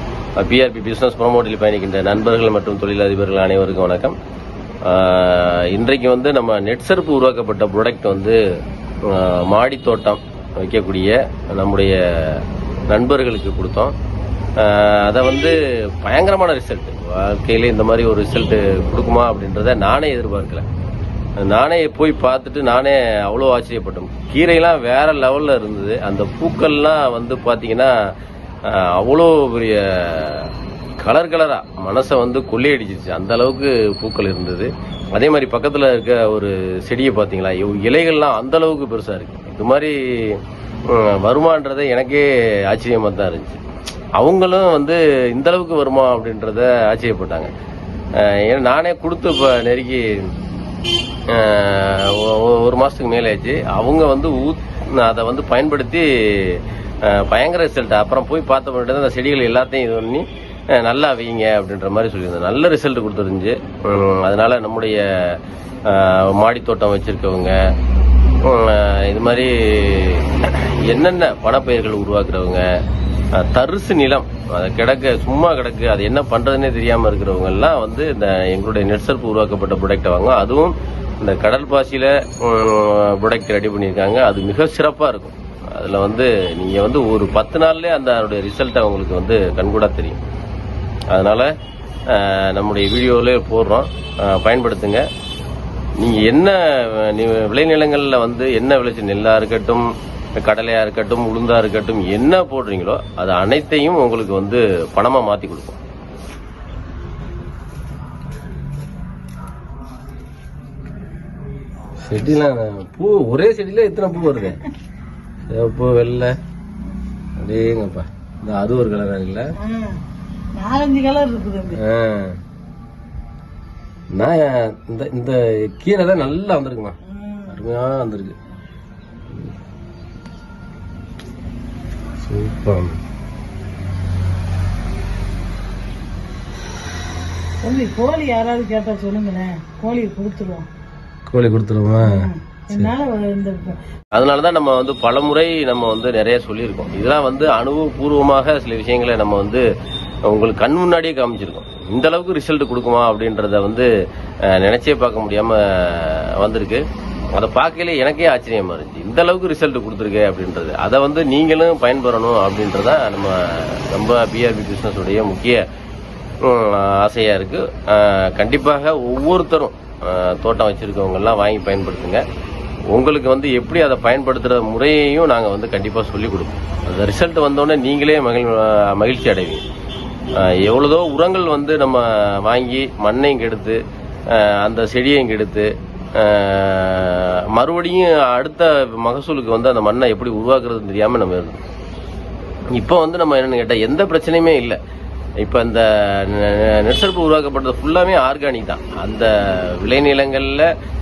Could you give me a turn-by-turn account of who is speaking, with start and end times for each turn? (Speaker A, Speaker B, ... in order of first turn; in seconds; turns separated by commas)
Speaker A: 0.4-4.2, Speaker A: 4.8-8.4, Speaker A: 9.0-13.9, Speaker A: 14.6-20.6, Speaker A: 21.4-28.1, Speaker A: 28.6-43.6, Speaker A: 44.2-47.5, Speaker A: 48.1-50.3, Speaker A: 51.3-67.6, Speaker A: 68.4-72.7, Speaker A: 73.3-90.2, Speaker A: 91.1-91.5, Speaker A: 92.1-95.0, Speaker A: 96.0-105.8, Speaker A: 112.0-114.7, Speaker A: 115.5-116.3, Speaker A: 117.4-119.5, Speaker B: 119.6-120.0, Speaker B: 120.5-121.8, Speaker A: 121.7-122.4, Speaker A: 124.1-127.0, Speaker B: 127.1-127.6, Speaker A: 127.5-128.3, Speaker A: 132.2-133.0, Speaker B: 137.6-140.7, Speaker A: 141.3-142.9, Speaker B: 142.0-143.8, Speaker A: 144.1-149.7, Speaker A: 150.2-153.9, Speaker A: 154.5-165.6, Speaker A: 166.4-172.2, Speaker A: 172.9-179.6, Speaker A: 180.4-191.6, Speaker A: 192.7-194.8, Speaker A: 195.4-200.7